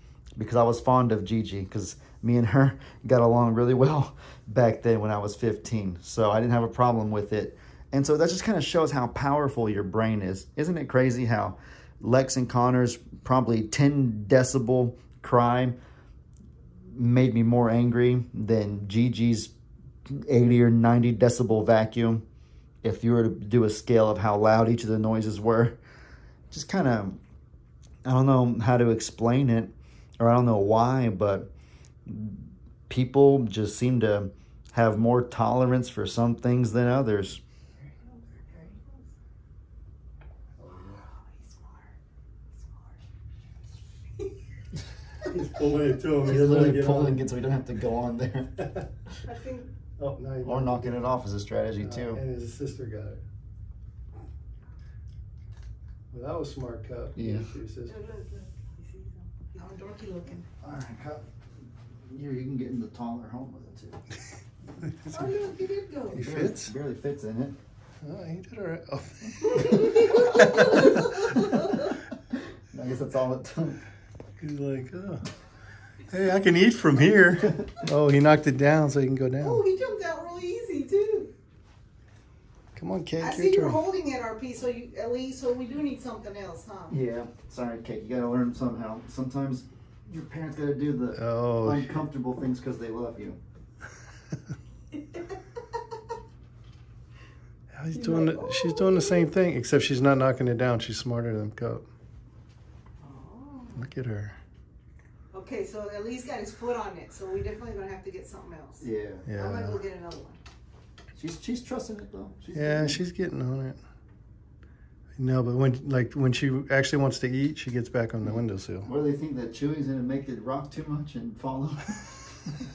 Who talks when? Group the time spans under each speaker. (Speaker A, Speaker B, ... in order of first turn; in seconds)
Speaker A: 0.4-15.8, 16.9-19.5, 20.1-22.2, 22.8-25.8, 26.5-27.2, 28.1-31.5, 32.1-37.4, 46.2-48.6, 50.4-52.2, 57.2-57.5, 60.6-61.2, 62.0-64.0, 66.2-67.6, 72.7-73.8, 86.9-93.4, 108.8-109.3, 111.2-113.0, 118.9-122.5
Speaker B: 38.0-39.1, 41.3-41.9, 42.6-43.0, 49.3-49.7, 57.9-60.5, 65.0-66.3, 69.5-72.0, 79.4-81.3, 83.2-87.0, 98.0-99.3, 103.0-103.8, 105.3-110.4
Speaker C: 40.6-41.1, 45.2-47.2, 50.0-51.0, 51.8-53.2, 56.1-58.0, 64.8-65.2, 66.1-66.7, 68.0-71.4, 74.4-75.2, 76.1-79.6, 82.8-83.8, 91.1-92.0, 97.7-101.8, 103.7-104.4, 109.3-109.8, 112.5-113.8, 115.2-118.9